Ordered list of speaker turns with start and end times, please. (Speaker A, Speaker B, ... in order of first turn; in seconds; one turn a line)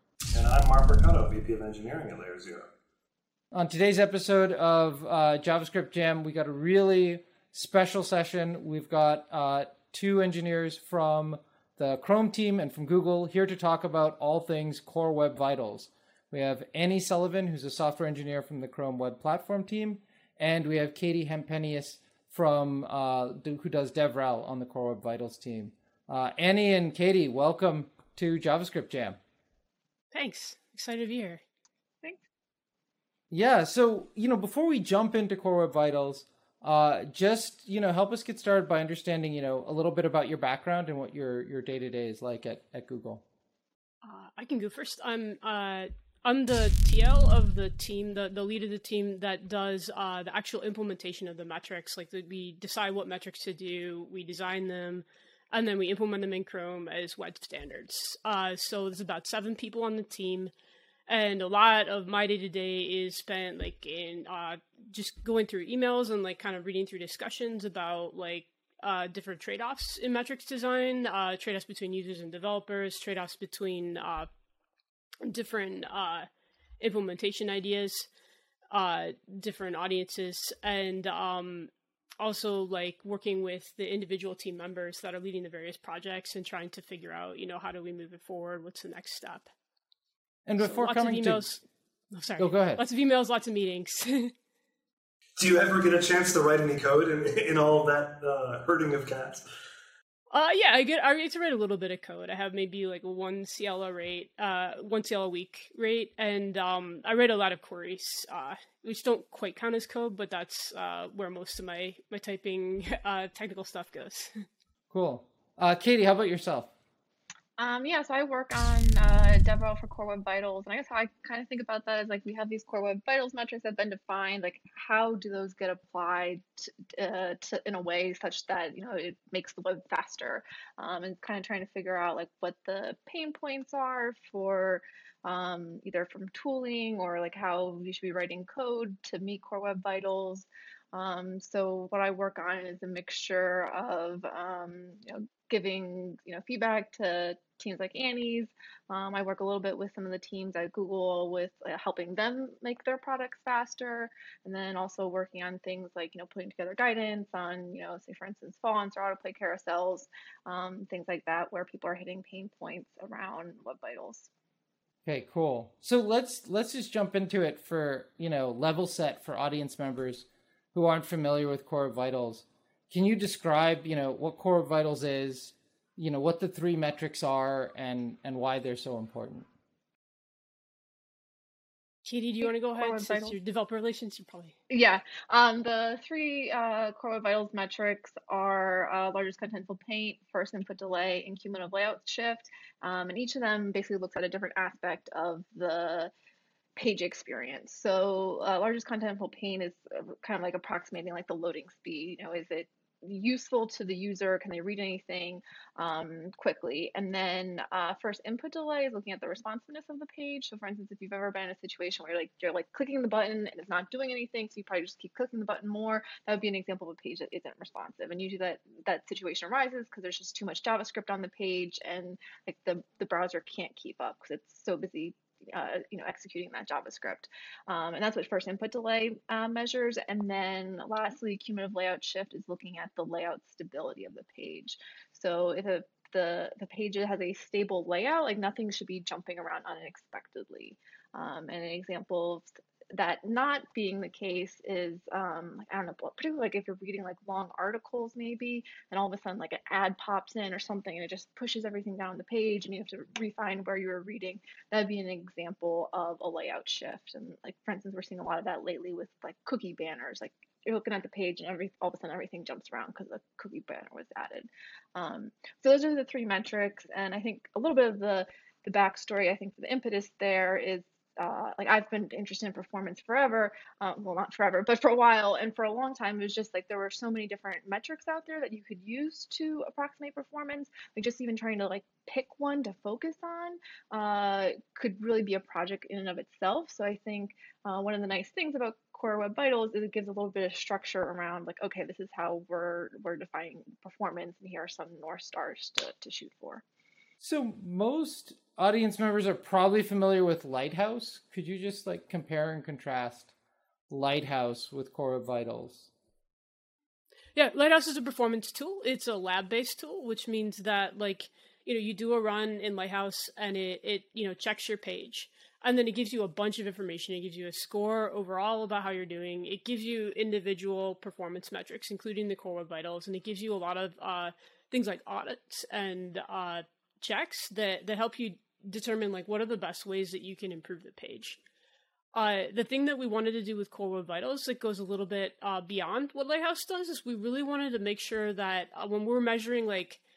Speaker A: 0.3-2.7
Speaker B: 3.5-29.2
Speaker C: 30.1-31.4
Speaker B: 33.3-43.2
Speaker C: 44.0-60.5
Speaker C: 61.1-74.3
Speaker C: 75.2-76.3
Speaker C: 76.8-78.1
Speaker C: 78.7-89.5
Speaker B: 90.5-91.4
Speaker C: 90.6-94.3
Speaker B: 92.4-92.8
Speaker A: 95.4-99.4
Speaker C: 100.3-114.4
Speaker B: 114.9-116.7
Speaker D: 117.6-164.3
Speaker B: 165.1-179.5
Speaker C: 182.0-184.5
Speaker D: 182.4-183.3
Speaker D: 184.7-196.1
Speaker D: 196.8-296.6
Speaker B: 297.2-303.3
Speaker B: 303.9-305.9
Speaker C: 307.3-331.4
Speaker C: 332.1-340.0